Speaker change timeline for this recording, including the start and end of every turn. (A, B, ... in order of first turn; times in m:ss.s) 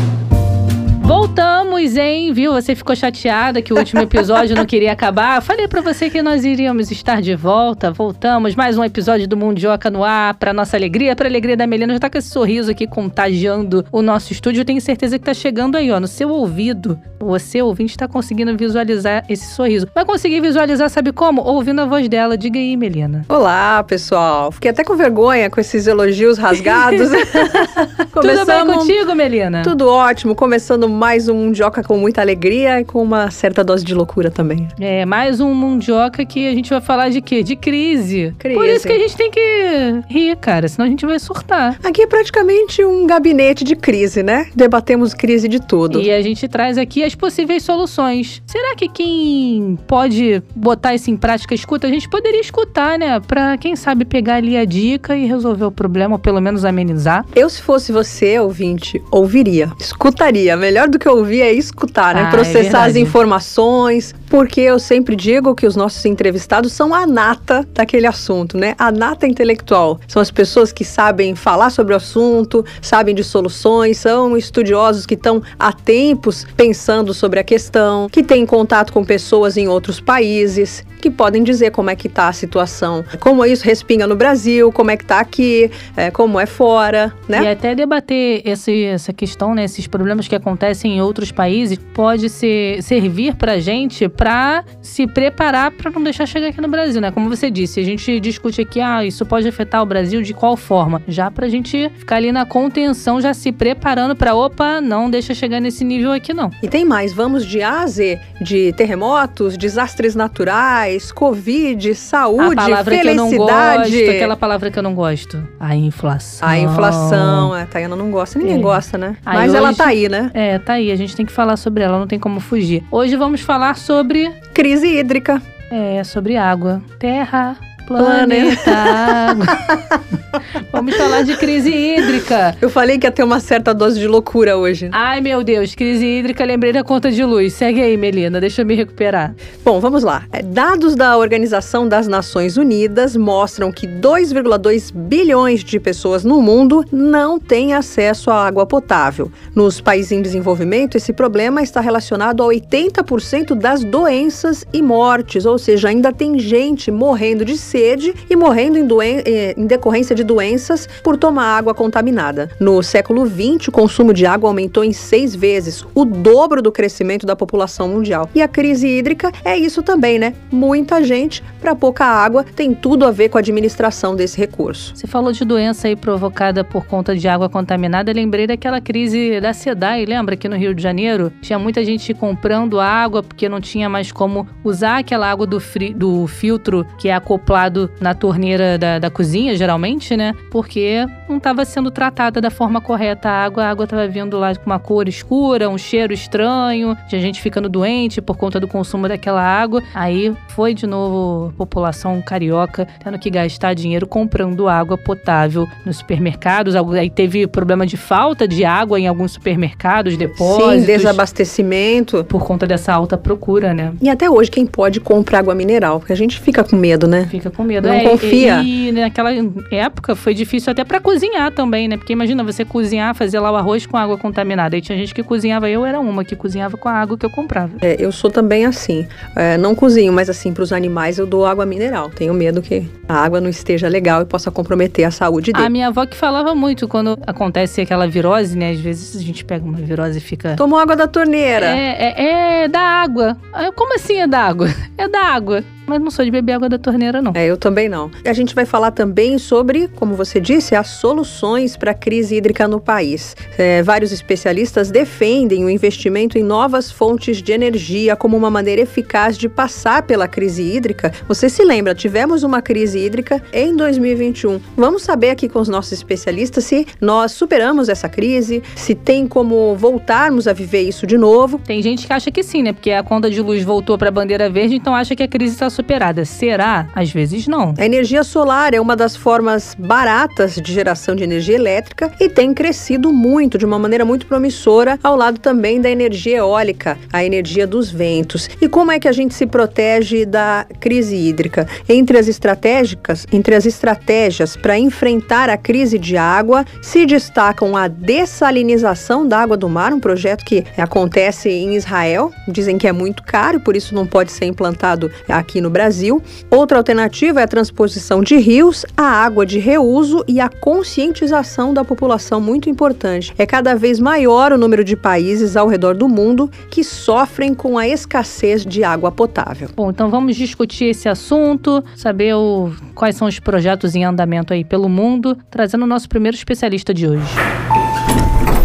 0:01.0-0:23.3 A
0:23.3-0:29.0 B
0:26.6-0:29.7 A
0:29.6-0:34.7 B
0:34.8-0:41.8 A
0:38.4-0:39.0 B
0:41.8-0:46.1 B
0:45.9-0:57.3 A
0:57.3-1:27.5 B
1:02.1-1:03.2 A
1:27.3-1:46.6 A
1:46.6-1:54.3 B
1:52.4-1:57.5 A
1:56.4-2:00.3 B
1:58.4-2:04.4 A
2:04.5-2:05.4 B
2:05.7-2:09.7 A
2:08.0-2:10.0 B
2:10.6-2:12.6 A
2:11.0-2:11.3 B
2:12.6-2:15.0 B
2:14.9-2:19.4 A
2:19.6-2:55.0 B
2:55.0-3:31.2 A
3:30.4-3:32.3 B
3:32.3-3:34.0 A
3:34.0-3:38.7 B
3:37.3-3:47.8 A
3:47.8-3:55.7 B
3:55.5-4:00.6 A
4:00.6-4:01.8 B
4:01.6-4:07.4 A
4:07.3-4:31.6 B
4:31.7-4:37.8 A
4:37.8-5:19.7 B
5:19.8-5:27.4 A